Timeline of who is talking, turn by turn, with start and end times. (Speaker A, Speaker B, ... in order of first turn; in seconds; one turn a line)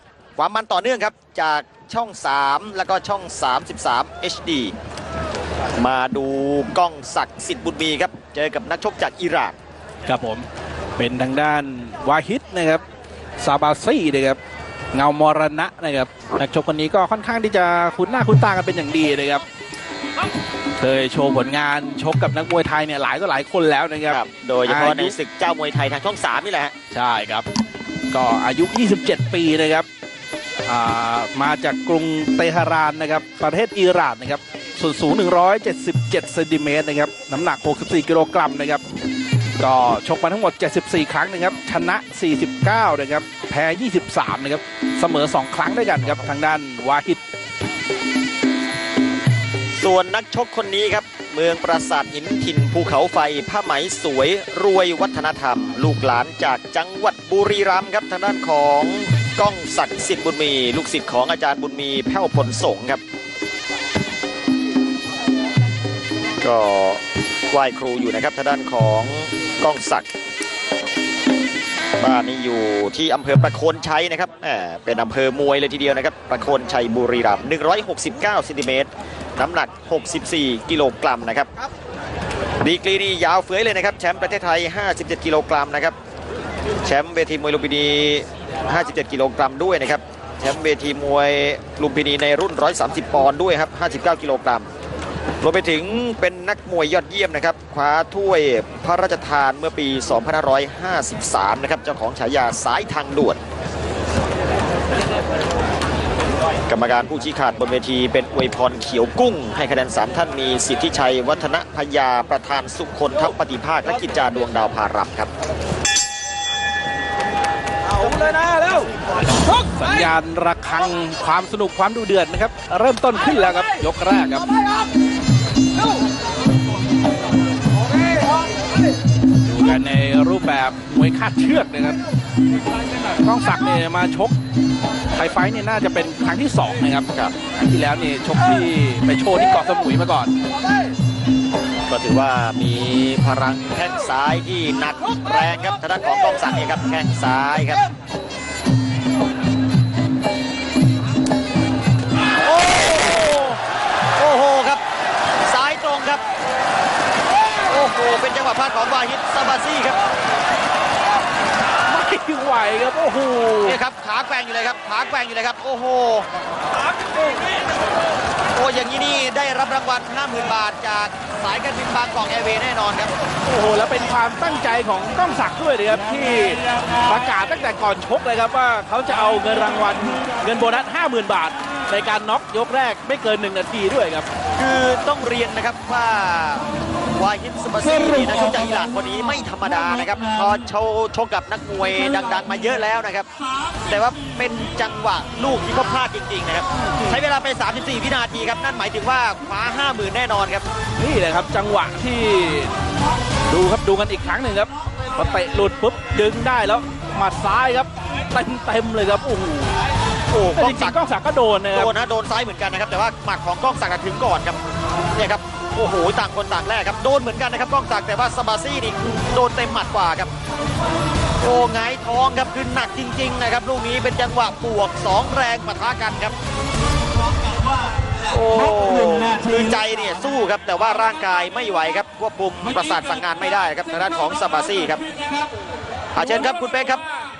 Speaker A: 0.4-4.7
Speaker A: 5.8-9.6
Speaker B: 10.1-12.8
Speaker B: 13.4-14.4
Speaker B: 14.9-19.4
Speaker B: 20.8-25.1
Speaker A: 24.1-26.7
Speaker B: 26.9-27.4
Speaker B: 28.1-29.9
Speaker B: 30.6-38.8
Speaker B: 39.6-47.2
Speaker A: 49.7-63.0
Speaker A: 66.4-70.1
Speaker A: 72.0-81.5
Speaker A: 82.6-85.9
Speaker A: 86.8-94.7
Speaker A: 95.4-103.4
Speaker A: 106.7-115.3
Speaker B: 118.0-118.9
Speaker B: 119.5-124.5
Speaker B: 129.4-132.0
Speaker B: 133.2-134.3
Speaker B: 135.1-140.3
Speaker A: 141.9-147.8
Speaker A: 152.6-153.5
Speaker A: 154.2-154.8
Speaker A: 155.4-156.2
Speaker A: 157.7-160.0
Speaker B: 161.9-163.8
Speaker A: 163.6-166.3
Speaker A: 168.5-173.1
Speaker B: 173.4-184.3
Speaker A: 184.6-193.3
Speaker A: 193.8-200.7
Speaker B: 201.0-202.7
Speaker B: 203.5-209.8
Speaker A: 210.3-210.9
Speaker B: 210.5-211.9
Speaker A: 211.7-214.6
Speaker A: 215.1-220.3
Speaker A: 221.4-226.3
Speaker A: 228.3-235.0
Speaker A: 236.1-237.0